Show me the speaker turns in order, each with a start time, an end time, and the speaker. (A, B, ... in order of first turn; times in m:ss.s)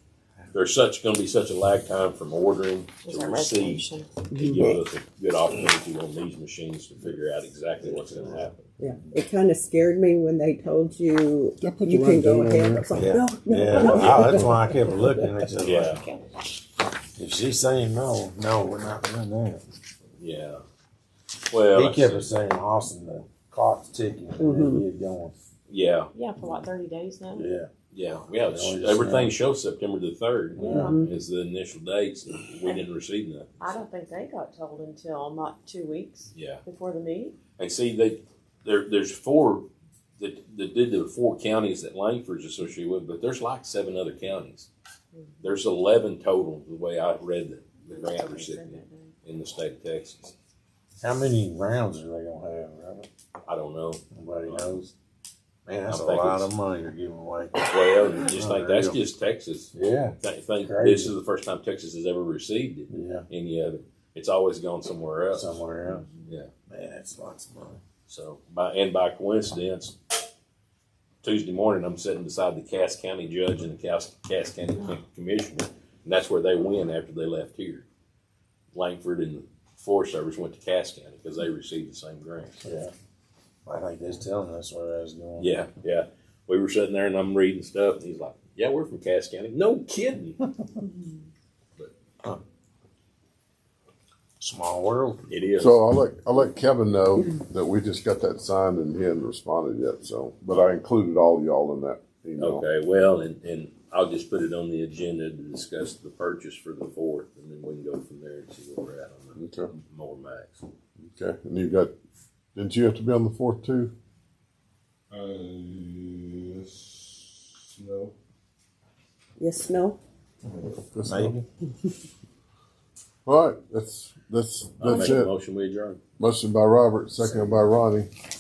0:00.5-0:08.6 A
0:03.1-0:04.2 B
0:04.3-0:04.8 C
0:07.8-0:08.5 D
0:08.8-0:15.3 C
0:11.6-0:13.1 E
0:13.0-0:16.0 D
0:15.6-0:16.0 A
0:17.1-0:19.7 D
0:20.2-0:20.6 A
0:21.5-0:22.3 A
0:21.7-0:25.4 D
0:24.4-0:24.8 C
0:25.7-0:26.1 A
0:26.1-0:27.4 B
0:27.3-0:27.7 D
0:27.9-0:33.5 A
0:28.2-0:29.4 D
0:30.6-0:31.0 D
0:30.6-0:31.1 C
0:33.6-0:37.4 B
0:36.3-0:36.6 A
0:37.6-0:39.6 A
0:40.2-0:44.7 A
0:45.4-0:50.3 A
0:48.8-0:49.1 B
0:51.0-0:53.1 D
0:53.4-0:54.8 A
0:54.1-0:54.9 D
0:55.6-0:59.0 D
0:55.9-0:56.5 A
0:57.6-1:05.6 A
0:59.7-1:01.1 D
1:02.9-1:03.3 D
1:05.3-1:06.1 D
1:06.2-1:06.5 A
1:06.7-1:07.8 D
1:08.0-1:10.0 A
1:11.2-1:17.8 A
1:18.7-1:22.6 A
1:22.6-1:22.9 D
1:23.6-1:25.5 D
1:25.4-1:30.5 A
1:34.4-1:35.2 D
1:35.3-1:35.8 A
1:35.6-1:42.6 E
1:42.4-1:50.6 A
1:49.3-1:49.7 E
1:51.0-1:51.9 E
1:52.6-1:53.9 E
1:55.1-1:58.1 F
1:59.4-2:00.0 C
2:00.4-2:00.8 F
2:00.8-2:01.4 E
2:01.0-2:01.4 D
2:03.2-2:05.3 E
2:04.8-2:06.0 A
2:06.2-2:08.1 E